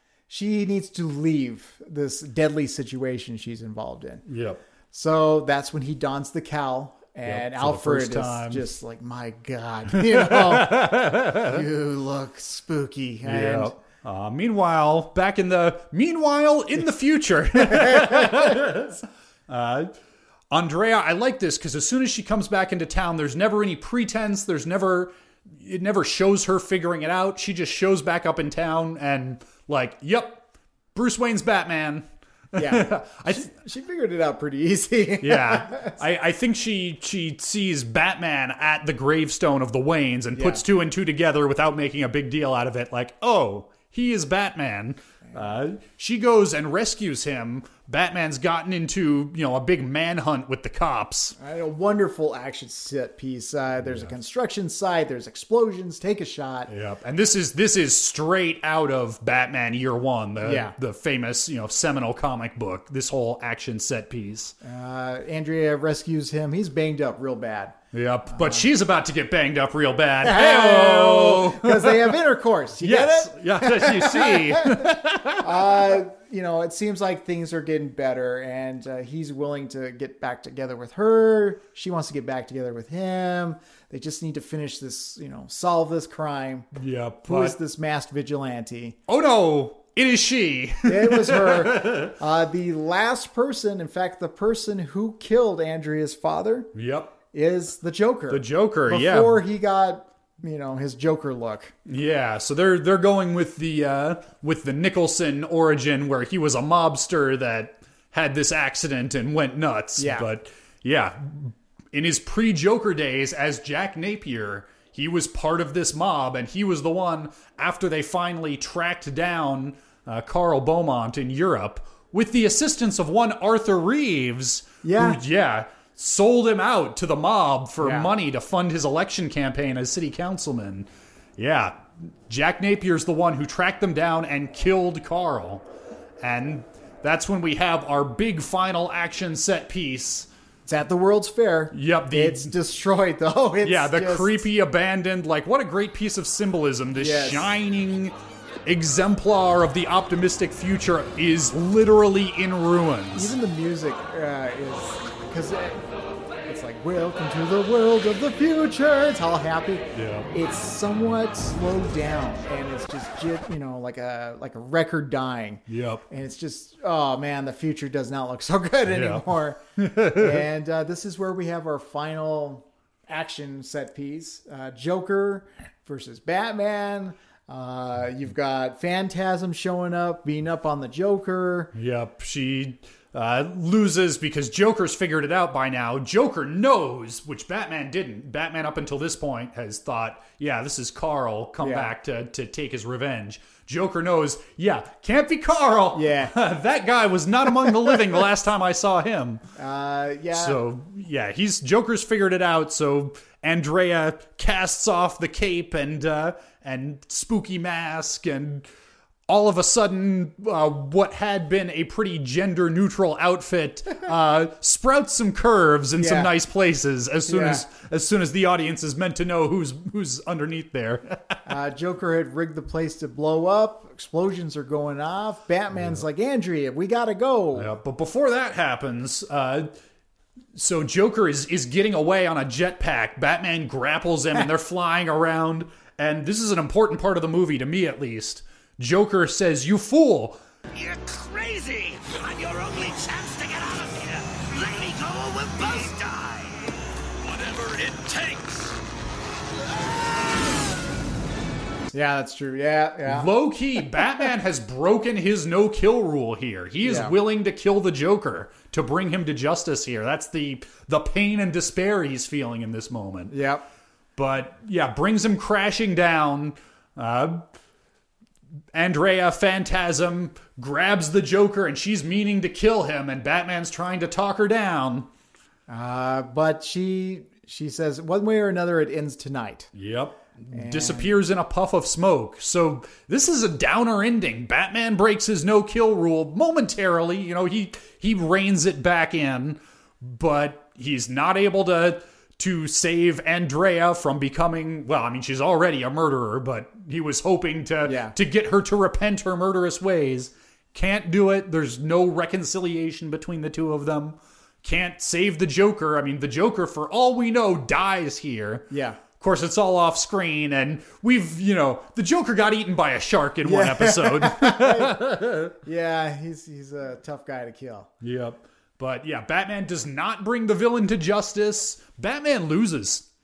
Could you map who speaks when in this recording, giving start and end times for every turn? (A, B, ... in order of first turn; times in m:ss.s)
0:00.3-0:04.2 A
0:04.3-0:04.6 B
0:04.9-0:13.8 A
0:07.2-0:08.6 B
0:09.9-0:11.6 B
0:13.2-0:19.9 B
0:17.9-0:18.3 A
0:20.5-0:33.5 B
0:32.5-0:36.0 A
0:35.2-0:51.4 B
0:40.3-0:40.6 A
0:51.4-0:56.7 A
0:56.7-1:04.6 B
1:00.4-1:00.7 A
1:04.6-1:07.8 A
1:07.9-1:12.2 B
1:08.3-1:08.6 A
1:10.2-1:14.9 A
1:12.8-1:15.9 B
1:15.4-1:26.7 A
1:26.7-1:27.6 B
1:27.2-1:29.0 A
1:29.1-1:32.2 B
1:30.8-1:36.7 A
1:36.7-1:37.2 B
1:37.3-1:41.7 A
1:38.3-1:39.4 B
1:41.8-2:15.6 B
1:50.0-1:50.3 A
2:04.8-2:05.2 A
2:07.8-2:08.1 A
2:16.2-2:20.3 B
2:20.7-2:24.4 A
2:21.7-2:22.5 B
2:23.6-2:33.3 B
2:27.0-2:27.5 A
2:33.2-2:35.8 A
2:36.4-3:01.7 A
2:39.9-2:40.3 B
2:45.7-2:46.0 B
2:48.8-2:50.4 B
3:01.7-3:19.4 B
3:11.6-3:11.9 A
3:15.9-3:16.4 A
3:19.6-3:20.6 A
3:20.3-3:28.6 B
3:29.3-3:41.4 B
3:36.0-3:36.3 A
3:37.2-3:37.6 A
3:41.4-3:47.7 A
3:45.7-3:46.0 B
3:47.5-3:49.7 B
3:50.5-4:00.4 B
4:00.7-4:08.7 C
4:09.8-4:10.5 C
4:11.9-4:13.3 A
4:13.0-4:23.3 B
4:16.8-4:17.1 A
4:23.3-4:23.6 A
4:24.2-4:27.5 B
4:28.7-4:35.1 B
4:35.7-4:39.7 A
4:39.7-5:15.5 B
4:40.5-4:41.1 A
4:57.8-4:58.1 A
5:08.7-5:09.0 A
5:13.4-5:15.0 A
5:15.6-5:17.9 A
5:18.0-5:23.0 B